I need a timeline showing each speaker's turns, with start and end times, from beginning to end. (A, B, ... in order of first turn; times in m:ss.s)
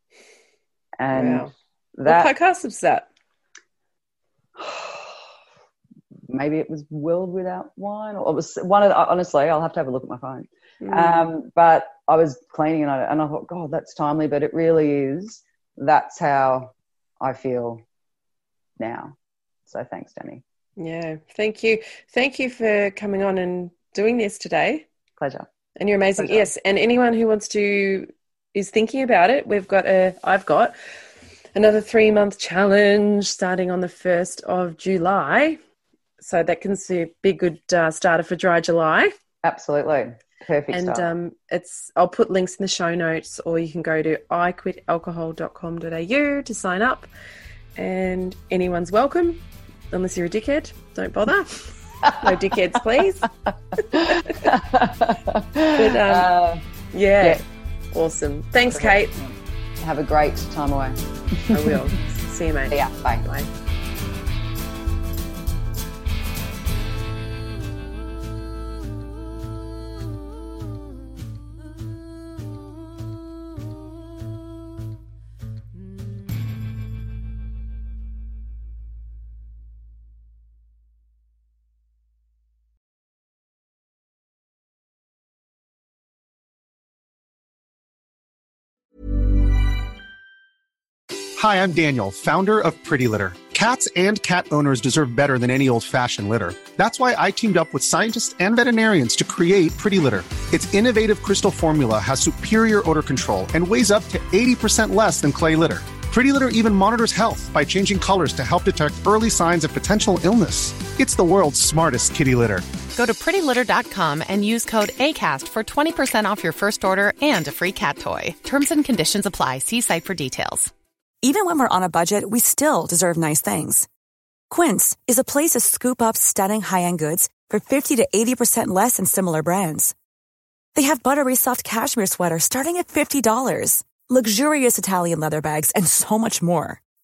0:01.0-0:02.3 A
0:01.1-0:01.5 B
0:02.0-0:03.1 B
0:04.6-0:05.2 A
0:06.3-0:17.8 A
0:10.8-0:11.2 B
0:18.8-0:19.1 A
0:19.7-0:20.4 A
0:20.8-0:24.8 B
0:25.2-0:25.5 A
0:25.8-0:30.7 B
0:26.2-0:26.5 A
0:31.5-0:35.6 B
0:36.2-0:39.1 B
0:39.4-0:41.1 A
0:40.7-0:47.1 B
0:47.8-0:53.3 B
0:52.0-0:52.4 A
0:53.8-0:56.6 A
0:53.9-0:54.5 B
0:55.8-0:56.3 B
0:56.9-0:59.1 B
0:58.7-1:01.8 A
1:01.5-1:03.5 B
1:02.7-1:03.3 A
1:31.4-1:52.6 C
1:52.9-2:00.7 D
2:01.2-2:03.9 E
2:04.5-2:09.9 E
2:10.7-2:16.8 E